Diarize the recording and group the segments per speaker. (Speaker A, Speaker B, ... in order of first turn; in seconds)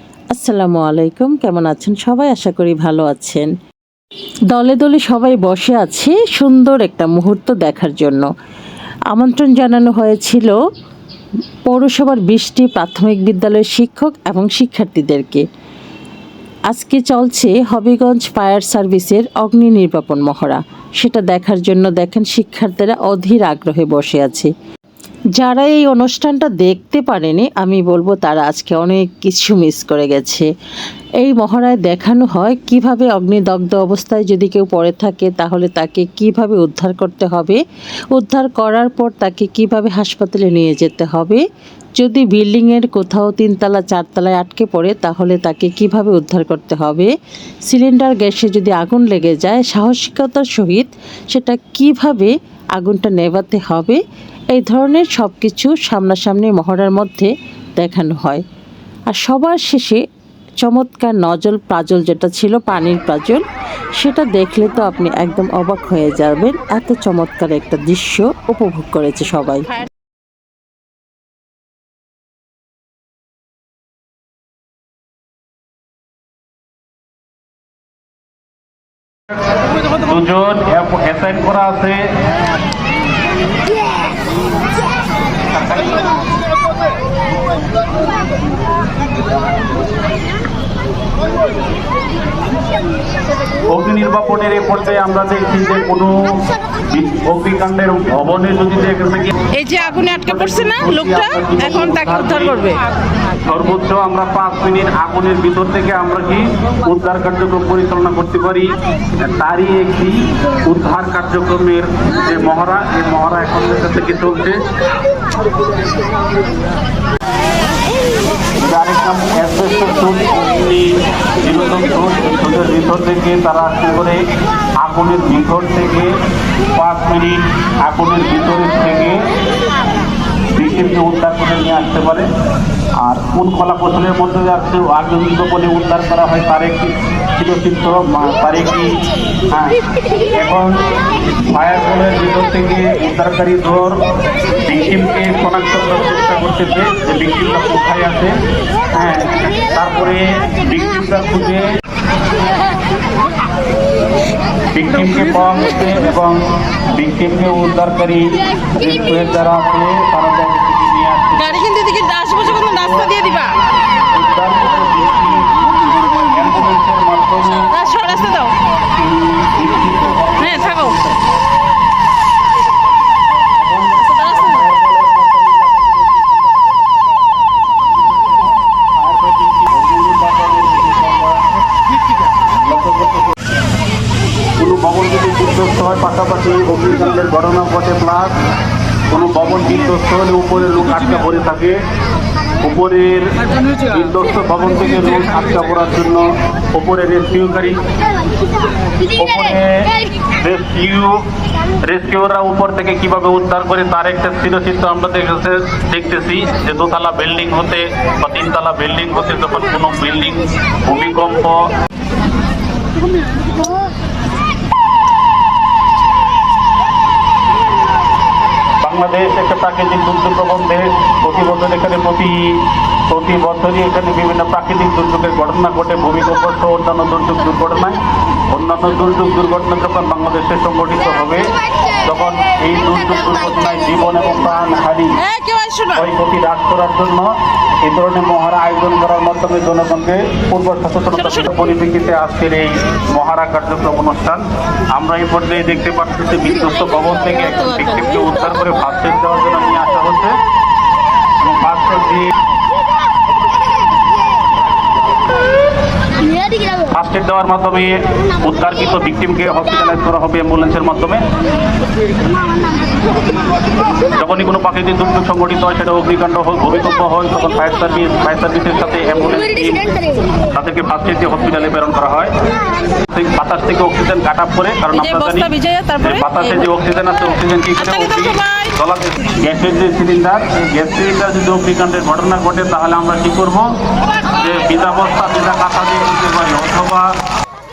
Speaker A: 0.3-3.5, 4.5-8.3, 9.1-10.6, 11.7-15.4, 16.7-24.5, 25.4-30.5, 31.2-37.6, 38.1-41.4, 42.0-47.1, 47.7-54.0, 54.5-58.4, 59.1-60.0, 60.6-63.4, 64.0-69.8
Speaker B: 80.0-82.1, 85.5-86.0, 93.7-102.7, 103.4-114.6, 118.6-124.2, 124.8-126.1, 126.7-129.2, 130.6-132.3, 133.0-139.0, 139.5-139.8, 140.3-140.8, 141.5-144.0, 144.7-148.3, 148.9-151.7, 154.7-161.7, 162.4-163.3, 164.1-165.6, 166.3-168.4, 169.0-171.3, 173.6-181.4, 182.6-183.4, 184.6-188.4, 189.1-191.8, 192.6-193.4, 193.9-197.8, 199.2-201.2, 201.8-211.7, 218.8-228.0, 228.5-235.2, 235.9-250.3, 251.4-252.3, 256.9-261.2, 264.1-269.8, 270.5-272.3, 273.0-283.7, 284.3-287.1
Speaker C: 99.5-102.8, 161.5-163.6, 167.7-168.5, 170.6-170.9, 235.2-236.0, 275.0-276.4, 278.2-278.6